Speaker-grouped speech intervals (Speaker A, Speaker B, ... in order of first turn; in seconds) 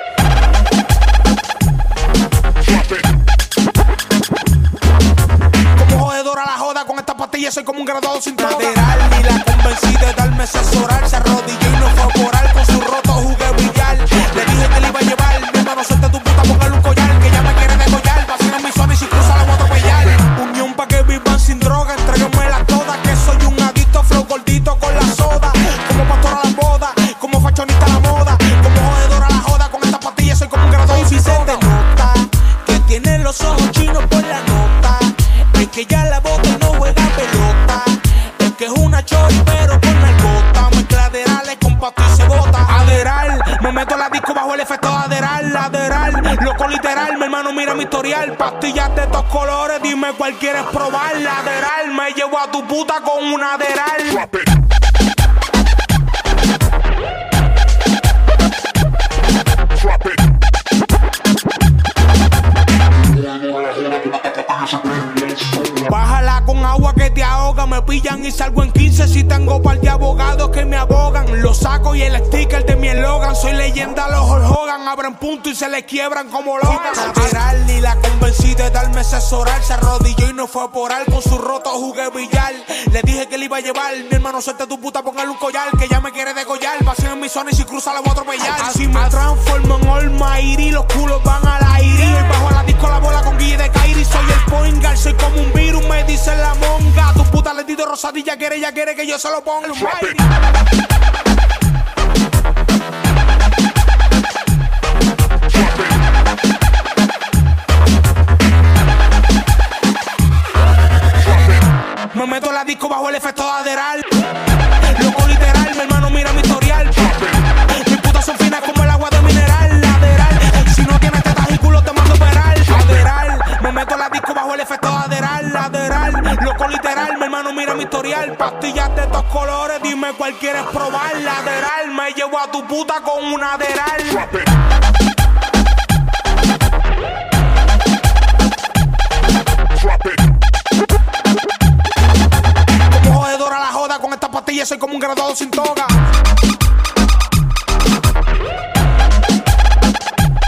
Speaker A: 5.7-54.4, 65.5-100.2, 112.1-114.1, 114.8-134.4, 142.9-146.0